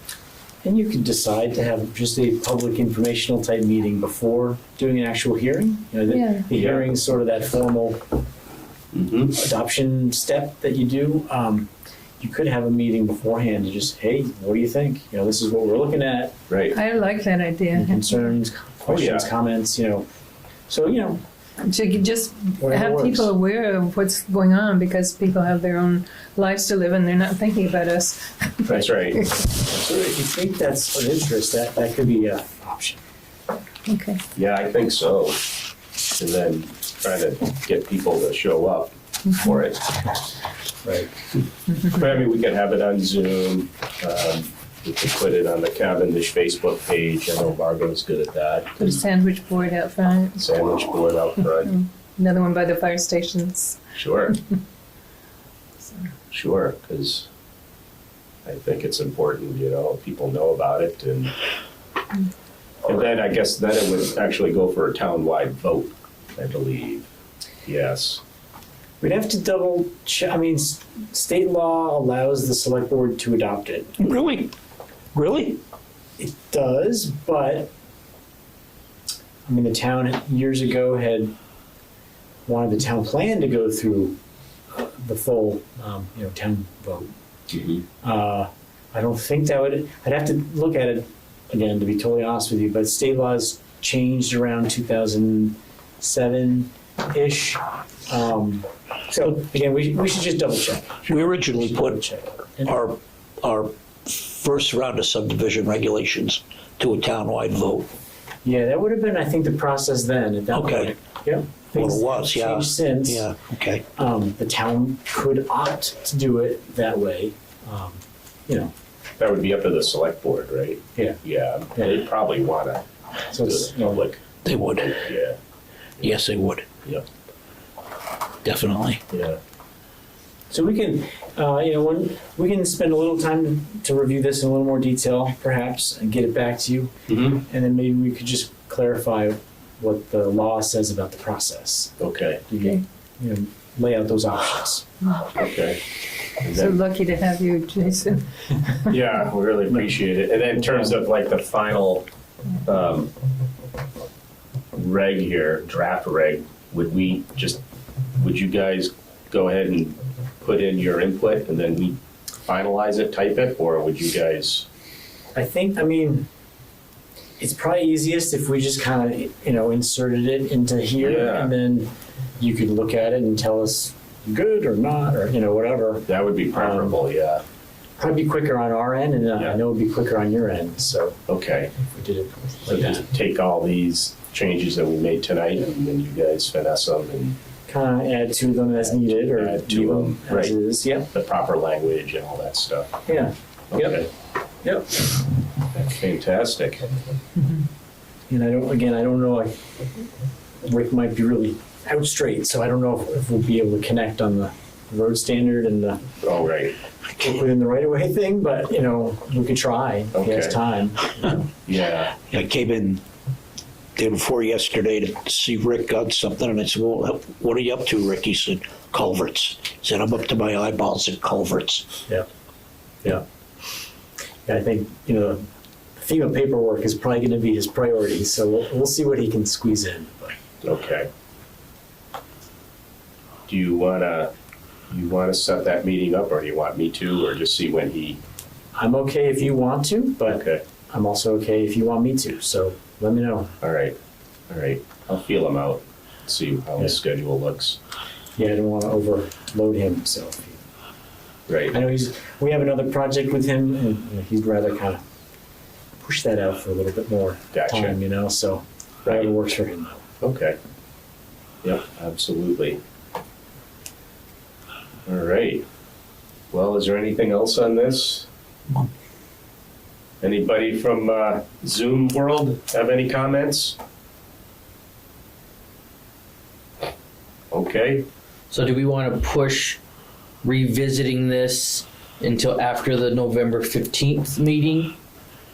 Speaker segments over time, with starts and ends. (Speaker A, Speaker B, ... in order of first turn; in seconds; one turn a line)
Speaker A: 0.6-8.0
Speaker B: 6.1-6.5
Speaker C: 6.5-6.8
Speaker C: 8.9-9.4
Speaker A: 9.3-16.3
Speaker C: 16.5-16.8
Speaker B: 16.7-18.2
Speaker A: 17.7-20.1
Speaker C: 18.9-19.3
Speaker A: 20.7-21.2
Speaker B: 21.6-29.5
Speaker A: 22.6-23.3
Speaker C: 28.6-29.3
Speaker A: 29.7-33.0
Speaker B: 33.9-34.2
Speaker C: 34.3-35.4
Speaker C: 36.1-40.1
Speaker A: 40.8-41.1
Speaker C: 41.8-49.0
Speaker B: 48.8-50.5
Speaker C: 50.4-51.7
Speaker B: 51.6-53.8
Speaker C: 53.9-54.4
Speaker C: 56.3-57.3
Speaker C: 58.4-61.3
Speaker C: 62.8-67.1
Speaker C: 67.6-68.2
Speaker A: 69.0-74.0
Speaker D: 74.0-74.5
Speaker D: 75.1-75.6
Speaker A: 76.2-77.7
Speaker A: 79.5-81.3
Speaker A: 82.5-84.2
Speaker A: 84.7-87.1
Speaker C: 87.5-87.8
Speaker A: 88.0-102.8
Speaker D: 101.1-102.0
Speaker D: 102.7-107.9
Speaker A: 108.4-113.3
Speaker D: 110.5-110.9
Speaker D: 111.7-113.8
Speaker A: 114.0-118.7
Speaker C: 119.2-125.4
Speaker A: 123.3-124.0
Speaker D: 124.4-125.0
Speaker D: 126.0-126.7
Speaker D: 128.4-129.0
Speaker C: 129.1-129.4
Speaker A: 130.5-141.9
Speaker C: 137.1-137.4
Speaker C: 142.0-142.4
Speaker A: 142.5-144.8
Speaker B: 145.0-145.3
Speaker C: 145.3-145.8
Speaker C: 146.4-146.8
Speaker B: 146.5-148.9
Speaker C: 148.9-152.1
Speaker C: 152.6-153.1
Speaker C: 154.7-157.6
Speaker C: 158.2-164.7
Speaker A: 165.3-166.3
Speaker A: 167.4-177.0
Speaker C: 171.0-171.5
Speaker C: 176.1-177.4
Speaker A: 178.0-181.2
Speaker C: 181.3-181.7
Speaker A: 181.8-183.1
Speaker C: 182.7-187.3
Speaker A: 187.7-191.1
Speaker C: 188.8-190.5
Speaker C: 191.1-192.9
Speaker A: 193.1-194.0
Speaker C: 193.7-194.1
Speaker A: 194.6-194.9
Speaker C: 195.7-196.8
Speaker A: 198.3-200.0
Speaker A: 200.6-206.0
Speaker C: 206.2-206.7
Speaker A: 207.1-211.4
Speaker C: 210.1-210.6
Speaker C: 211.7-212.1
Speaker D: 212.3-213.0
Speaker D: 213.9-221.9
Speaker A: 224.4-225.4
Speaker A: 226.0-230.3
Speaker C: 230.6-231.1
Speaker C: 233.5-234.3
Speaker C: 234.9-238.2
Speaker A: 238.7-243.5
Speaker C: 240.3-240.6
Speaker C: 243.6-243.9
Speaker C: 244.5-247.8
Speaker A: 248.3-250.6
Speaker C: 251.5-251.8
Speaker A: 251.7-255.0
Speaker A: 256.0-260.0
Speaker C: 257.5-257.9
Speaker C: 260.2-260.6
Speaker C: 261.6-262.8
Speaker C: 265.1-265.6
Speaker C: 266.5-268.3
Speaker C: 270.2-273.8
Speaker C: 277.5-278.1
Speaker E: 278.5-279.8
Speaker E: 280.4-284.9